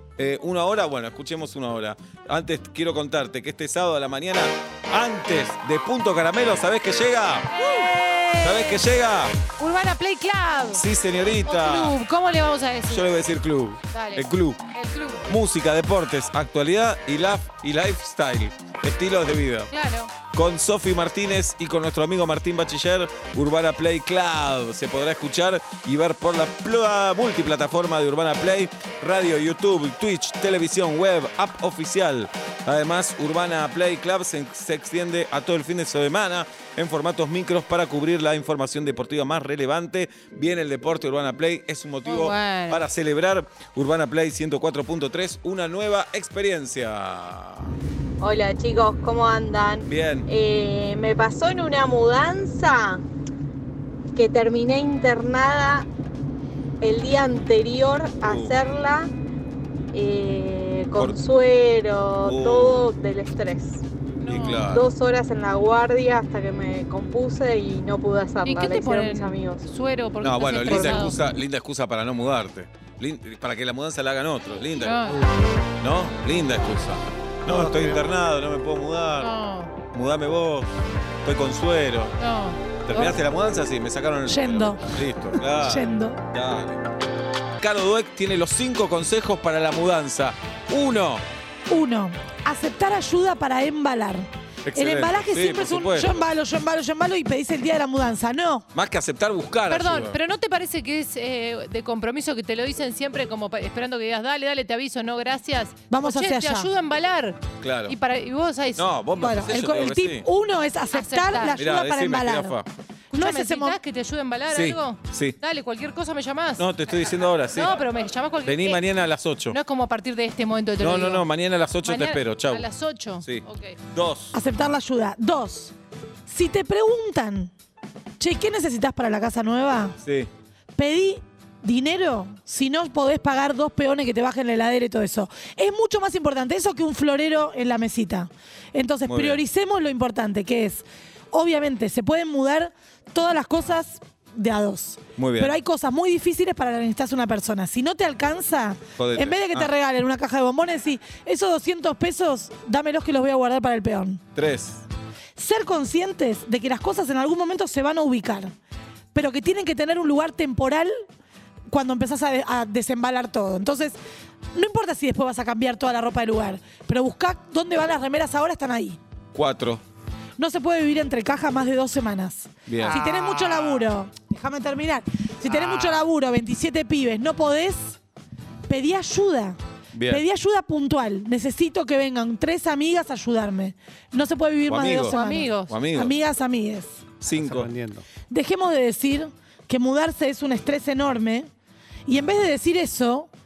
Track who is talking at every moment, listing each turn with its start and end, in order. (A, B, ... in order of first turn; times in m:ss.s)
0:00.2-0:07.5 A
0:07.6-0:08.8 B
0:08.4-0:09.4 A
0:09.6-0:13.2 B
0:10.7-0:12.0 A
0:12.9-0:14.6 A
0:13.9-0:15.4 B
0:15.3-0:19.7 A
0:19.7-0:20.2 B
0:20.3-0:47.8 A
0:42.0-0:42.9 B
0:48.2-0:53.0 C
0:49.9-0:50.3 A
0:54.2-0:55.8 C
0:56.9-0:59.1 C
0:58.2-0:58.6 A
1:00.0-1:03.7 C
1:01.0-1:01.2 A
1:02.2-1:02.9 A
1:04.2-1:04.8 B
1:04.3-1:04.9 A
1:04.8-1:09.6 C
1:08.4-1:11.2 B
1:10.2-1:15.1 A
1:14.8-1:15.2 B
1:15.8-1:19.3 A
1:17.5-1:18.1 D
1:19.2-1:19.8 B
1:19.9-1:20.7 A
1:21.2-1:22.2 A
1:22.2-1:23.1 B
1:22.8-1:26.8 A
1:22.9-1:23.2 E
1:24.3-1:24.8 E
1:25.5-1:26.2 E
1:27.6-1:31.2 A
1:31.7-1:38.7 E
1:34.7-1:36.2 A
1:38.7-1:40.2 A
1:39.7-1:48.9 B
1:45.9-1:46.7 E
1:47.6-1:48.0 A
1:48.8-1:50.3 A
1:49.2-1:52.6 E
1:50.9-1:51.7 B
1:51.6-1:52.7 A
1:53.1-1:56.7 B
1:53.1-1:53.8 E
1:54.5-1:55.4 A
1:56.6-1:57.7 A
1:57.5-1:58.9 B
1:58.4-1:59.6 A
1:59.5-2:01.3 B
2:00.8-2:02.7 A
2:01.8-2:03.8 B
2:03.2-2:04.3 A
2:04.3-2:05.7 E
2:06.3-2:07.5 E
2:08.2-2:10.0 E
2:10.0-2:10.3 A
2:10.8-2:34.2 E
2:19.1-2:19.4 A
2:25.2-2:25.6 A
2:29.0-2:29.7 A
2:34.4-2:34.9 A
2:35.4-2:38.5 E
2:39.1-2:40.9 E
2:41.7-2:44.0 E
2:44.5-2:49.0 E
2:49.3-2:49.8 A
2:50.4-2:58.0 E
2:52.7-2:53.0 A
2:52.8-2:53.9 D
2:55.4-2:56.1 D
2:58.7-3:06.9 E
2:59.9-3:00.2 A
3:04.7-3:05.2 A
3:05.0-3:05.8 B
3:05.7-3:06.1 A
3:07.2-3:07.7 A
3:07.4-3:08.1 D
3:08.3-3:11.5 E
3:12.1-3:13.3 E